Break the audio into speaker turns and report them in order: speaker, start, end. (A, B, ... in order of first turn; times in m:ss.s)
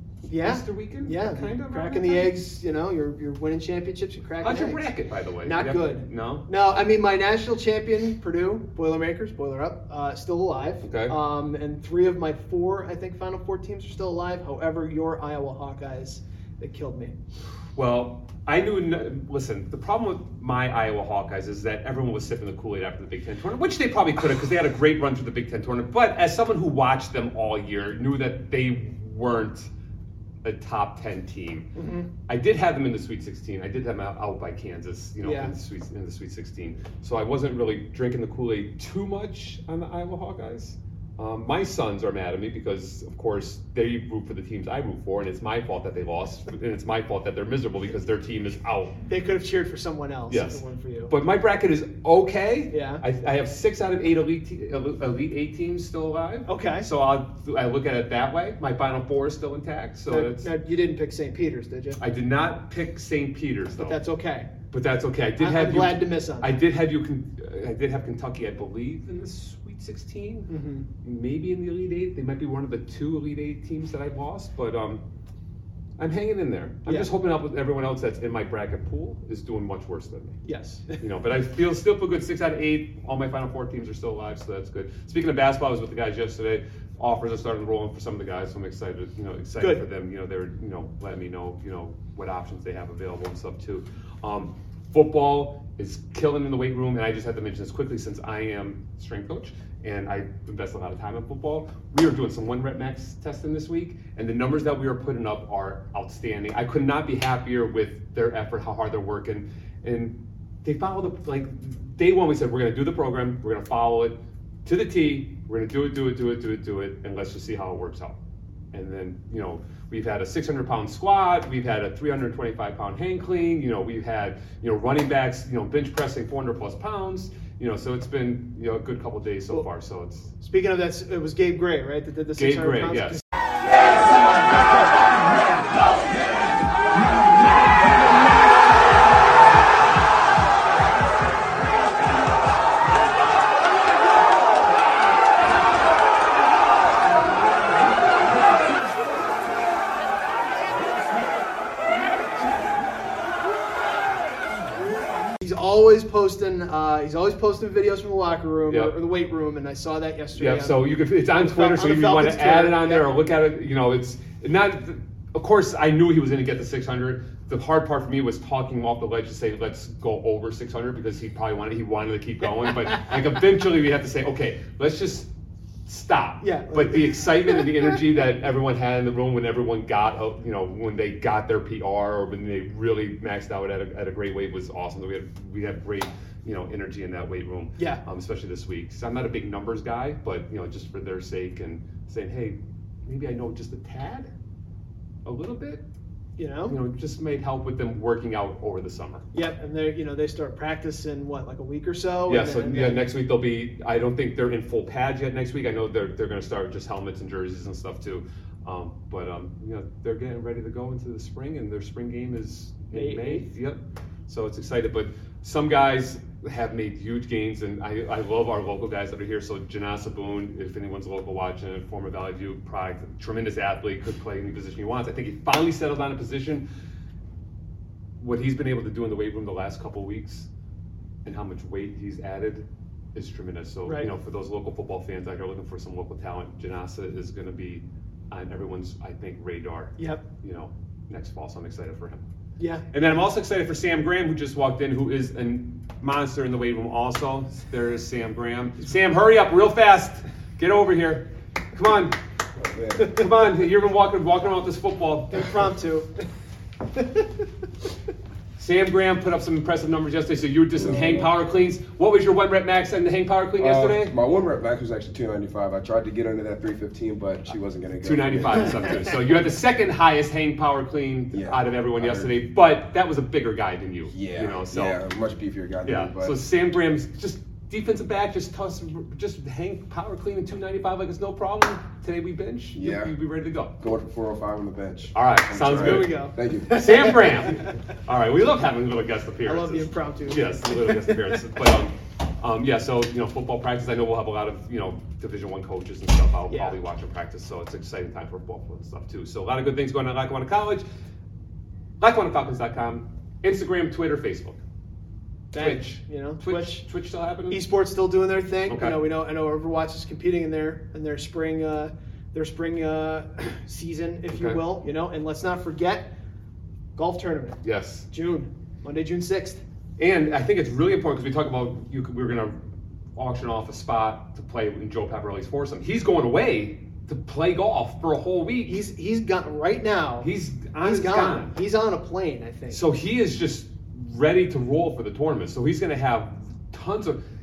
0:00.3-0:04.9 A
0:00.4-0:02.5 B
0:04.4-0:06.5 B
0:05.4-0:17.2 A
0:10.8-0:11.1 B
0:17.8-0:29.7 B
0:30.4-0:31.7 B
0:31.8-0:32.1 A
0:32.3-0:49.0 B
0:35.2-0:35.5 A
0:49.0-0:51.1 A
0:50.3-1:00.5 B
0:52.7-0:53.0 A
0:56.5-0:56.9 A
1:00.1-1:02.0 A
1:02.0-1:04.0 B
1:03.8-1:04.5 A
1:04.7-1:10.5 B
1:05.4-1:06.6 A
1:10.5-1:10.9 A
1:11.0-1:15.0 B
1:16.0-1:20.4 B
1:16.9-1:17.1 A
1:20.4-1:21.0 A
1:21.0-1:58.2 B
1:29.6-1:29.8 A
1:58.7-2:10.3 B
2:10.4-2:13.2 A
2:12.4-2:13.2 B
2:35.4-2:43.1 A
2:40.4-2:55.3 B
2:55.9-3:14.3 B
2:56.4-2:58.0 A
3:07.8-3:08.0 A
3:15.2-3:15.8 B
3:16.4-3:16.8 A
3:16.7-3:19.3 B
3:19.3-3:23.1 A
3:22.3-3:46.6 B
3:32.9-3:33.5 A
3:48.2-3:50.5 B
3:51.2-4:02.2 B
3:53.8-3:54.1 A
4:00.0-4:00.2 A
4:02.6-4:02.8 A
4:02.9-4:12.2 B
4:12.6-4:13.2 C
4:13.0-4:15.6 B
4:15.3-4:16.1 A
4:18.6-4:24.1 B
4:20.7-4:21.3 C
4:23.6-4:29.0 C
4:28.0-4:35.0 B
4:31.3-4:32.4 C
4:34.1-4:36.4 C
4:35.8-4:43.8 B
4:42.8-4:43.2 C
4:43.8-4:47.1 C
4:45.1-5:00.8 B
4:45.7-4:47.7 A
4:49.4-4:51.4 A
4:56.5-4:56.8 A
5:02.0-5:04.6 B
5:05.5-5:06.8 A
5:05.5-5:07.6 B
5:07.5-5:16.1 A
5:08.7-5:09.0 B
5:14.3-5:14.6 B
5:17.0-5:17.6 A
5:17.6-5:18.1 B
5:18.1-5:19.6 A
5:20.0-5:22.6 B
5:23.2-5:28.8 B
5:28.7-5:32.8 A
5:30.2-5:31.5 B
5:32.7-5:37.2 B